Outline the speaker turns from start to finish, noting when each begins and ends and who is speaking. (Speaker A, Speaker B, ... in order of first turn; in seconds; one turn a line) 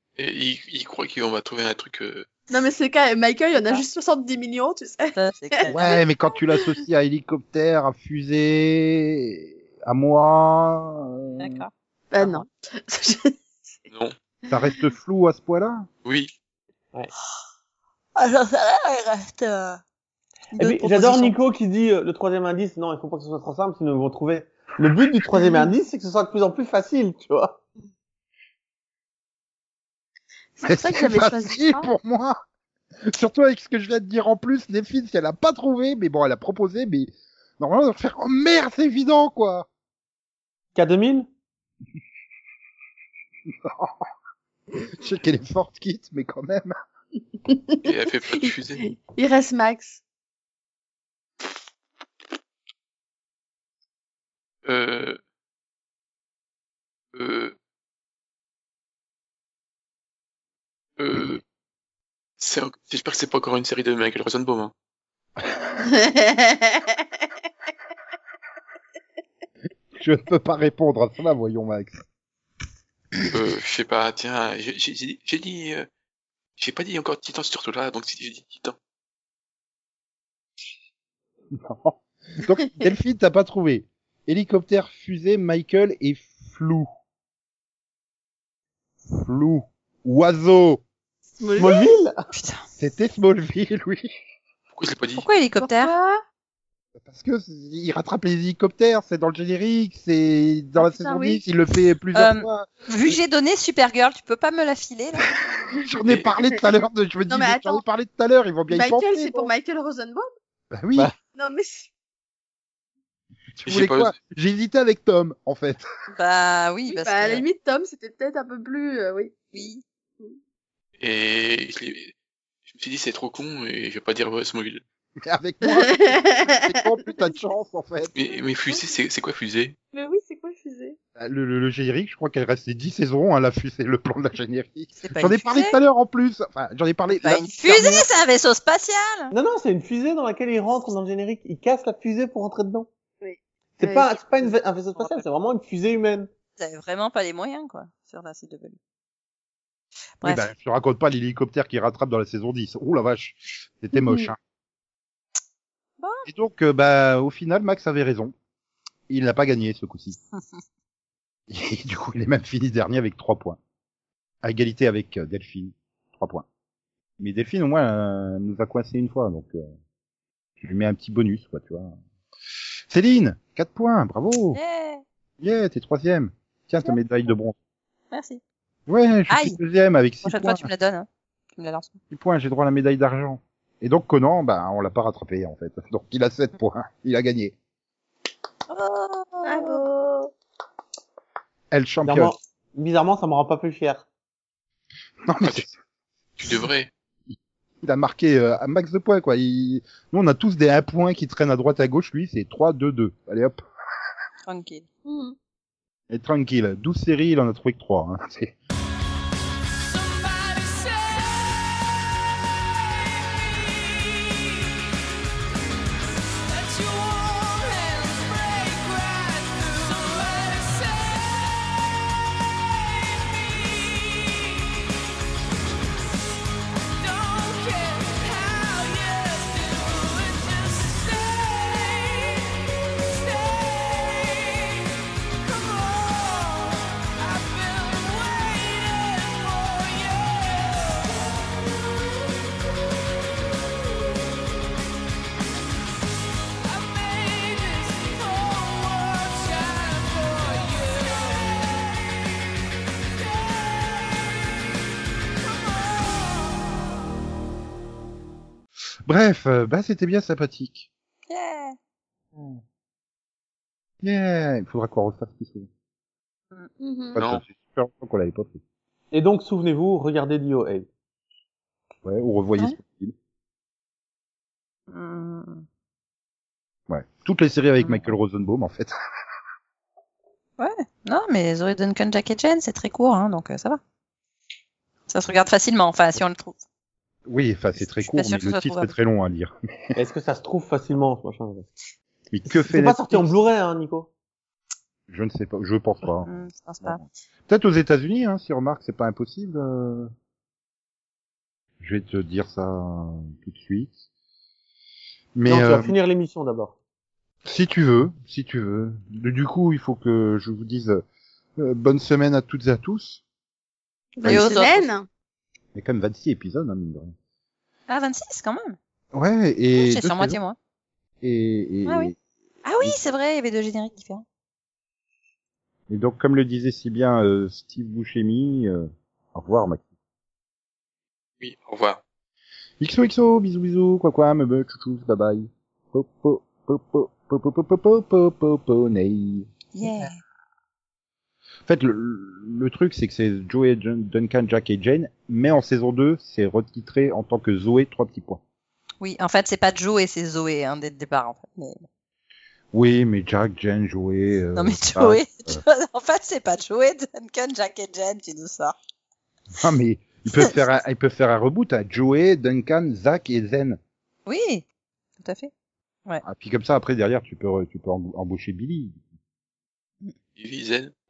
Speaker A: 0.2-2.3
Speaker B: 2.5-5.7
Speaker C: 5.1-6.0
Speaker D: 5.7-11.6
Speaker C: 11.4-12.4
Speaker B: 12.1-13.4
Speaker A: 13.9-14.2
Speaker D: 14.5-15.9
Speaker A: 16.1-16.3
Speaker C: 18.2-19.8
Speaker C: 20.5-21.4
Speaker E: 20.6-27.6
Speaker B: 30.6-31.9
Speaker D: 30.6-32.4
Speaker D: 33.1-39.7
Speaker E: 40.8-41.3
Speaker D: 43.5-44.1
Speaker D: 44.9-46.7
Speaker B: 47.5-47.8
Speaker A: 47.8-48.8
Speaker B: 48.3-50.0
Speaker A: 54.6-55.2
Speaker A: 57.1-57.5
Speaker A: 61.0-61.4
Speaker A: 62.4-64.7
Speaker D: 65.4-65.7
Speaker B: 65.9-67.0
Speaker D: 69.9-72.0
Speaker A: 73.3-75.9
Speaker A: 76.6-78.8
Speaker D: 81.5-86.9
Speaker D: 89.1-90.8
Speaker B: 91.4-92.0
Speaker E: 91.6-92.2
Speaker C: 92.3-92.7
Speaker D: 92.8-94.1
Speaker A: 94.7-95.3
Speaker C: 95.2-95.9
Speaker B: 95.6-96.2
Speaker D: 97.0-102.7
Speaker B: 100.8-101.4
Speaker C: 102.1-105.2
Speaker D: 105.9-109.5
Speaker B: 107.3-107.8
Speaker B: 108.7-110.3
Speaker D: 110.7-111.1
Speaker B: 111.3-111.9
Speaker D: 113.5-115.9
Speaker A: 113.6-114.1
Speaker C: 116.1-117.4
Speaker B: 116.9-119.4
Speaker C: 119.5-119.8
Speaker A: 121.0-122.1
Speaker A: 122.7-124.8
Speaker D: 125.2-128.1
Speaker B: 125.7-126.8
Speaker A: 128.2-129.8
Speaker B: 128.3-128.9
Speaker B: 129.9-131.0
Speaker D: 131.2-138.1
Speaker C: 135.0-135.8
Speaker C: 137.2-139.3
Speaker E: 139.3-142.9
Speaker B: 143.2-144.5
Speaker E: 143.8-146.3
Speaker C: 146.6-148.8
Speaker C: 150.2-150.5
Speaker D: 150.2-154.4
Speaker B: 154.0-154.3
Speaker C: 156.0-156.3
Speaker D: 156.3-158.3
Speaker D: 159.1-160.2
Speaker D: 161.5-163.6
Speaker D: 164.4-166.5
Speaker D: 167.2-169.7
Speaker D: 170.6-171.9
Speaker D: 172.9-174.6
Speaker C: 174.5-175.0
Speaker D: 175.4-177.6
Speaker C: 178.1-178.4
Speaker D: 178.9-180.7
Speaker C: 179.3-179.6
Speaker C: 180.2-182.0
Speaker D: 182.1-187.6
Speaker C: 188.7-189.8
Speaker B: 189.4-190.3
Speaker D: 191.7-192.3
Speaker E: 192.0-194.1
Speaker D: 195.3-195.8
Speaker A: 196.4-196.9
Speaker D: 197.3-203.6
Speaker C: 204.5-204.8
Speaker B: 205.1-205.3
Speaker D: 206.1-208.6
Speaker F: 209.7-211.7
Speaker F: 213.5-214.5
Speaker F: 216.4-221.6
Speaker F: 222.6-224.8
Speaker F: 227.0-242.4
Speaker F: 243.8-244.5
Speaker F: 246.6-251.9
Speaker F: 253.2-254.6
Speaker F: 255.4-256.9
Speaker D: 259.1-260.9
Speaker C: 261.3-261.8
Speaker D: 264.0-265.7
Speaker B: 266.8-267.2
Speaker D: 267.1-268.6
Speaker A: 267.2-267.4
Speaker E: 269.1-270.9
Speaker D: 272.0-273.1
Speaker C: 274.9-275.6
Speaker D: 276.9-278.9
Speaker C: 277.8-278.1
Speaker C: 280.6-283.8
Speaker C: 285.1-286.6
Speaker D: 287.3-289.6
Speaker C: 287.8-288.9
Speaker E: 289.9-291.7
Speaker D: 292.3-293.4
Speaker E: 292.5-294.1
Speaker D: 295.1-296.3
Speaker C: 296.2-297.0
Speaker D: 296.8-300.1
Speaker D: 301.8-303.9
Speaker D: 305.4-305.9
Speaker E: 305.5-306.8
Speaker D: 307.4-311.0
Speaker D: 311.6-313.2
Speaker B: 314.2-315.1
Speaker D: 314.2-314.9
Speaker C: 314.2-314.7
Speaker D: 315.7-317.1
Speaker C: 317.9-318.8
Speaker D: 319.1-320.4
Speaker C: 319.8-320.6
Speaker D: 321.2-322.1
Speaker C: 321.9-322.1
Speaker C: 322.6-324.2
Speaker D: 325.9-329.8
Speaker A: 331.4-332.0
Speaker D: 332.8-340.1
Speaker C: 339.8-340.2
Speaker D: 341.7-348.4
Speaker C: 349.0-351.9
Speaker D: 352.7-355.6
Speaker C: 354.6-358.8
Speaker D: 359.6-363.8
Speaker C: 364.3-364.6
Speaker C: 365.2-365.5
Speaker D: 366.2-369.0
Speaker A: 370.4-370.9